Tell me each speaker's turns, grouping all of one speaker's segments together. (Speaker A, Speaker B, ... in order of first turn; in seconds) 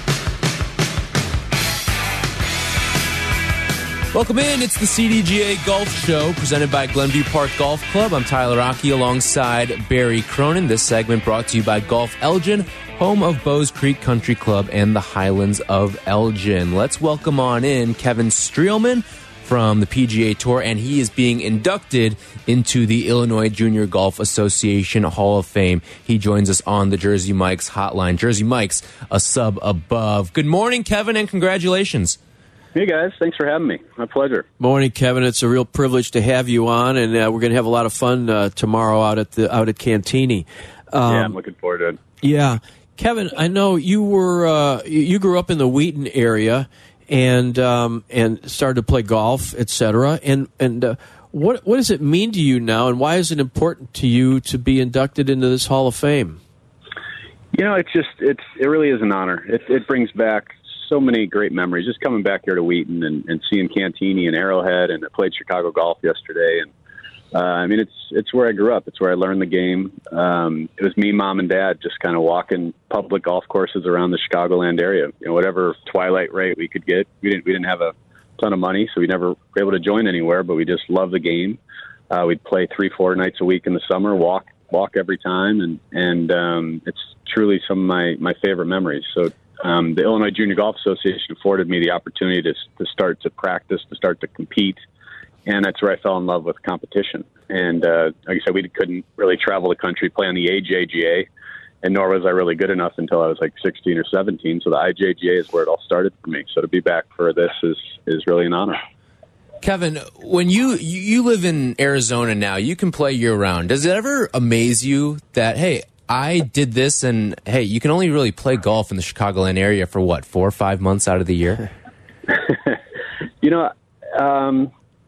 Speaker A: 4.1-32.2, 109.6-121.7
Speaker B: 32.8-34.5, 41.1-42.0, 57.5-66.7, 67.3-81.6, 82.1-94.8, 95.5-101.3, 101.8-108.8, 122.3-122.8, 123.4-124.7
Speaker C: 34.6-41.4, 42.2-56.4